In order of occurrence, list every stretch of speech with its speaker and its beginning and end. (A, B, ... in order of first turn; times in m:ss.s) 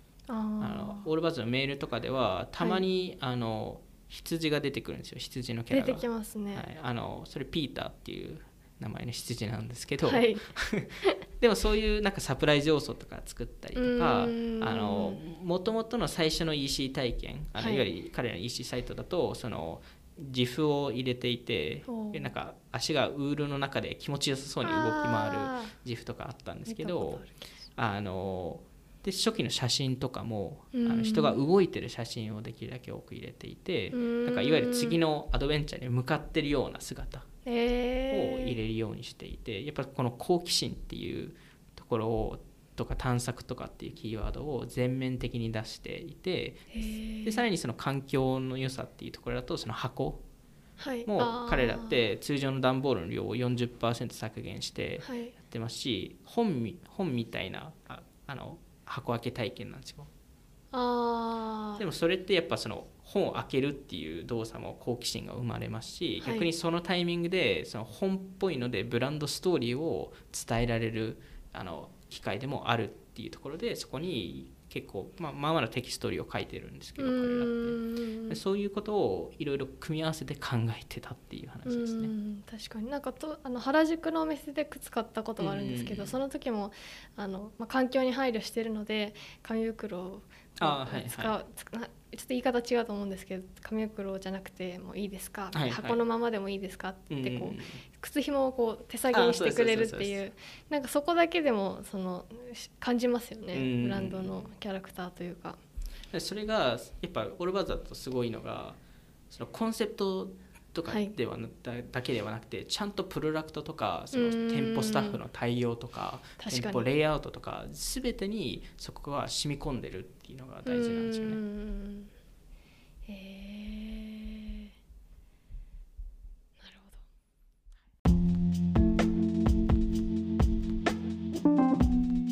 0:00.3-0:01.1 A
0:00.6-0:37.3 B
0:02.6-0:02.8 A
0:05.7-0:06.6 A
0:10.0-0:10.4 A
0:13.7-0:15.2 A
0:17.6-0:17.9 A
0:21.9-0:22.3 A
0:24.6-0:25.7 A
0:26.6-0:27.4 A
0:30.7-0:31.4 A
0:33.9-0:35.0 A
0:37.4-0:38.6 A
0:38.1-0:50.2 B
0:46.7-0:47.4 A
0:50.8-0:52.0 A
0:51.0-1:00.1 B
0:55.0-0:55.3 A
1:00.7-1:01.8 A
1:01.8-1:22.1 B
1:06.2-1:06.5 A
1:17.0-1:18.4 A
1:21.6-1:45.6 A
1:25.4-1:26.2 B
1:30.6-1:31.3 B
1:35.5-1:36.0 B
1:37.1-1:37.8 B
1:39.1-1:40.2 B
1:43.5-1:44.5 B
1:46.1-1:48.8 B
1:49.3-2:01.4 B
1:50.9-1:51.1 A
1:54.1-1:55.2 A
1:56.4-1:56.8 A
2:00.6-2:02.1 A
2:03.1-2:04.7 A
2:06.6-2:07.0 A